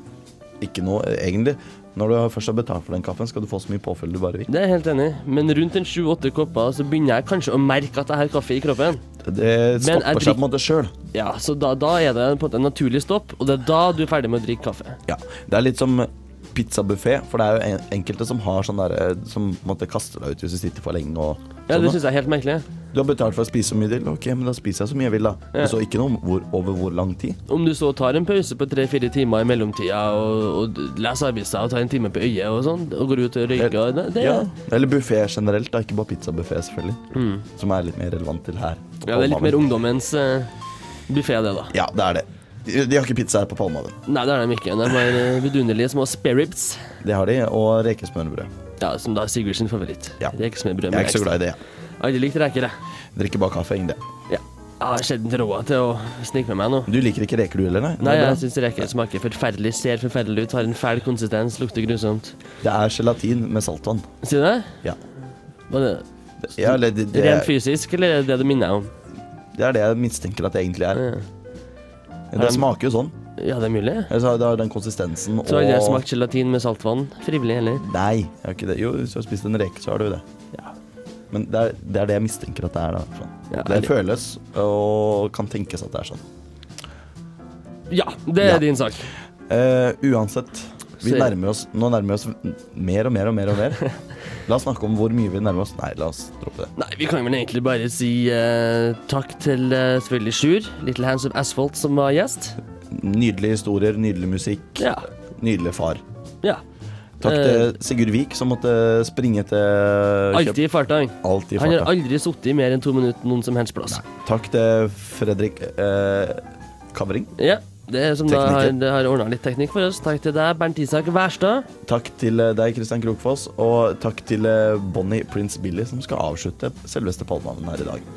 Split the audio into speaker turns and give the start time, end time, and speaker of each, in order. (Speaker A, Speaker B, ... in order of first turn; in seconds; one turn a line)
Speaker A: 0.6-4.5
Speaker B: 4.5-9.0
Speaker A: 9.2-10.9
Speaker B: 9.8-10.4
Speaker B: 11.1-15.0
Speaker A: 15.1-22.0
Speaker B: 21.7-22.6
Speaker A: 22.9-27.4
Speaker B: 27.5-34.5
Speaker A: 33.5-37.0
Speaker B: 37.1-37.4
Speaker A: 37.6-39.6
Speaker B: 39.1-40.5
Speaker B: 41.1-41.7
Speaker A: 41.7-44.0
Speaker B: 44.1-46.8
Speaker A: 47.0-48.5
Speaker B: 48.8-51.4
Speaker A: 50.9-51.6
Speaker B: 52.0-52.7
Speaker A: 53.1-54.0
Speaker B: 54.3-56.9
Speaker A: 56.9-58.8
Speaker B: 58.0-62.3
Speaker A: 62.6-64.0
Speaker B: 64.2-64.7
Speaker B: 65.7-66.0
Speaker A: 66.5-67.5
Speaker B: 66.6-68.9
Speaker A: 69.5-71.0
Speaker B: 71.0-71.2
Speaker A: 72.3-73.1
Speaker B: 72.3-72.6
Speaker B: 73.4-74.1
Speaker A: 74.1-76.0
Speaker B: 75.5-77.8
Speaker A: 77.8-80.2
Speaker A: 81.3-86.2
Speaker B: 83.5-83.9
Speaker B: 87.9-89.1
Speaker A: 89.5-93.8
Speaker B: 91.0-91.3
Speaker A: 94.4-96.7
Speaker B: 96.8-102.6
Speaker A: 102.9-106.0
Speaker B: 104.8-105.0
Speaker A: 107.2-110.6
Speaker B: 107.2-107.7
Speaker B: 110.3-114.0
Speaker A: 111.2-111.9
Speaker A: 113.9-117.3
Speaker B: 117.4-121.7
Speaker A: 118.3-118.7
Speaker A: 121.8-128.0